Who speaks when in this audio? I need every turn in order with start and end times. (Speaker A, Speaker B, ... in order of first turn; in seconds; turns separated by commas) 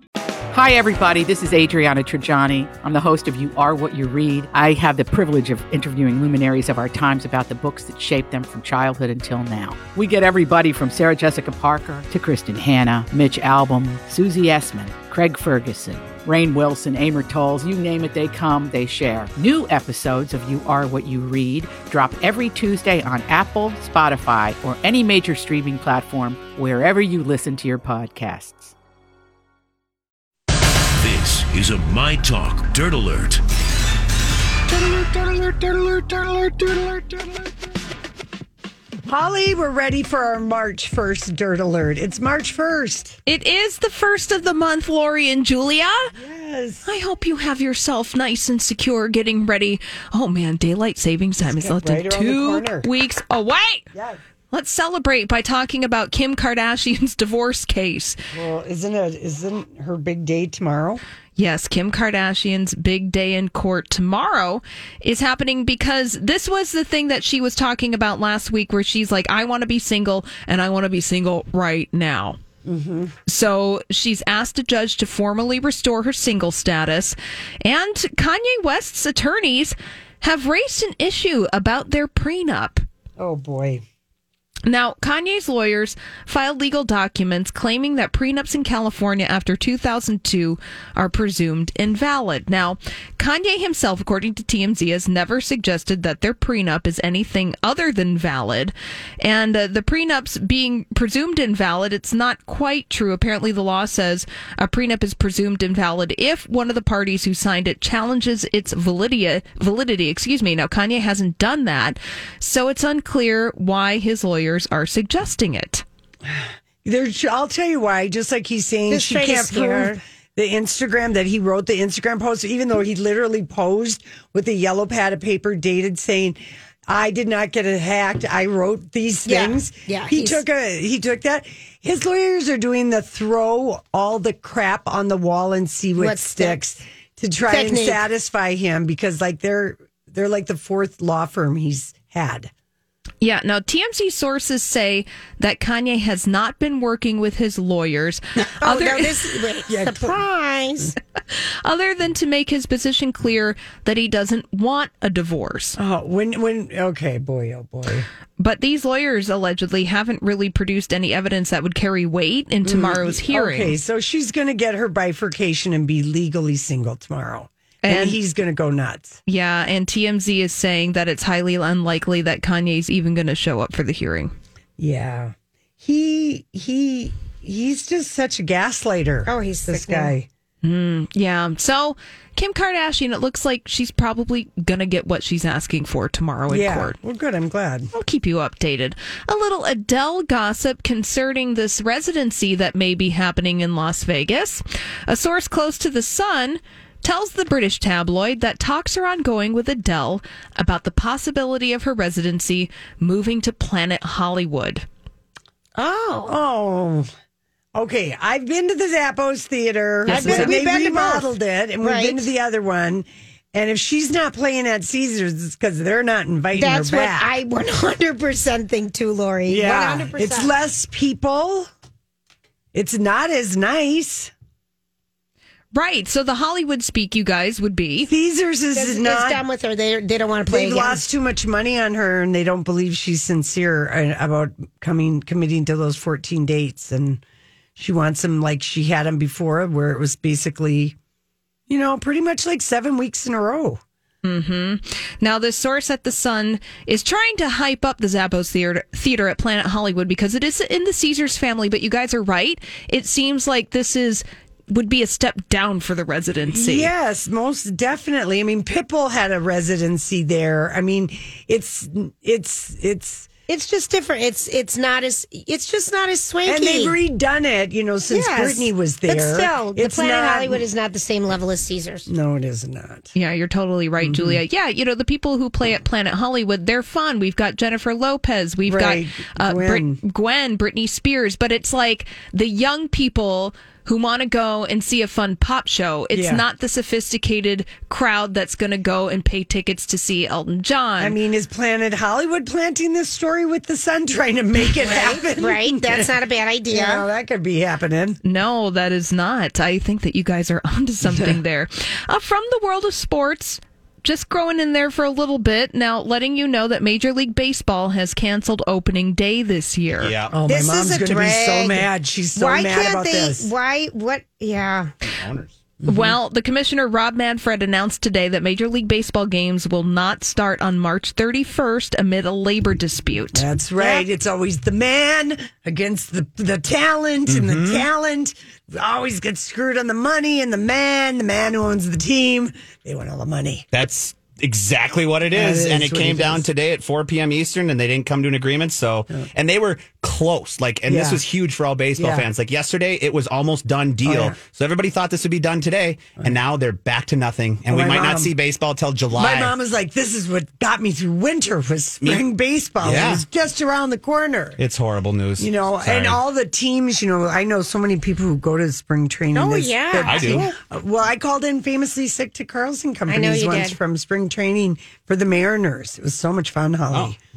Speaker A: 0.5-28.7, Speaker B: 31.0-33.4, Speaker C: 34.7-37.5, Speaker C: 39.0-43.2, Speaker D: 43.2-46.1, Speaker C: 46.1-46.9, Speaker D: 46.8-53.9, Speaker C: 51.4-52.9, Speaker C: 53.9-54.2, Speaker D: 54.5-58.2, Speaker C: 58.3-61.0, Speaker D: 61.4-72.4, Speaker C: 72.6-73.1, Speaker D: 73.2-82.8, Speaker C: 83.2-83.8, Speaker D: 84.7-115.8, Speaker C: 116.2-142.5, Speaker E: 118.9-120.0, Speaker E: 129.2-130.4, Speaker E: 136.0-136.6, Speaker E: 137.5-138.0, Speaker D: 143.2-149.3, Speaker E: 148.6-150.9, Speaker C: 149.7-150.2, Speaker D: 151.3-155.8, Speaker C: 155.8-158.1, Speaker D: 158.4-163.8, Speaker C: 162.6-169.2, Speaker D: 167.8-168.2, Speaker D: 169.2-174.3, Speaker C: 174.8-180.3, Speaker E: 179.2-180.1, Speaker D: 180.6-186.9, Speaker C: 186.5-187.9, Speaker D: 187.9-204.8, Speaker E: 205.8-206.3, Speaker C: 206.2-207.1, Speaker C: 207.7-217.3, Speaker D: 210.1-210.6, Speaker E: 210.1-211.3, Speaker E: 211.8-212.2, Speaker E: 216.5-220.5, Speaker C: 219.4-221.7, Speaker C: 222.7-224.3, Speaker D: 225.7-228.1, Speaker C: 228.0-229.4, Speaker E: 228.7-231.0, Speaker C: 230.5-237.2, Speaker C: 237.8-240.9, Speaker C: 241.7-243.8, Speaker D: 244.2-256.9, Speaker C: 256.4-263.3, Speaker E: 263.5-266.9, Speaker C: 266.4-270.6, Speaker E: 268.1-272.1, Speaker C: 272.1-273.1, Speaker D: 273.1-291.2, Speaker C: 274.0-274.4, Speaker C: 278.6-280.0, Speaker C: 286.1-286.4, Speaker C: 291.0-296.1, Speaker E: 294.8-297.0, Speaker C: 296.7-298.2, Speaker D: 298.2-310.1, Speaker C: 301.0-301.4, Speaker F: 310.0-310.3, Speaker C: 310.3-313.5, Speaker E: 310.5-314.9, Speaker F: 315.1-315.5, Speaker C: 315.8-316.1, Speaker D: 315.8-323.4, Speaker C: 323.3-333.7, Speaker E: 323.8-324.0, Speaker F: 327.3-327.9, Speaker F: 333.7-349.5, Speaker C: 335.3-336.5, Speaker C: 340.9-341.2, Speaker C: 341.9-342.3, Speaker C: 344.0-344.4, Speaker C: 347.7-348.3, Speaker C: 349.1-354.6, Speaker F: 352.8-353.2, Speaker F: 354.6-356.2, Speaker C: 355.4-367.2, Speaker E: 359.3-360.4, Speaker F: 360.1-360.5, Speaker E: 363.1-363.8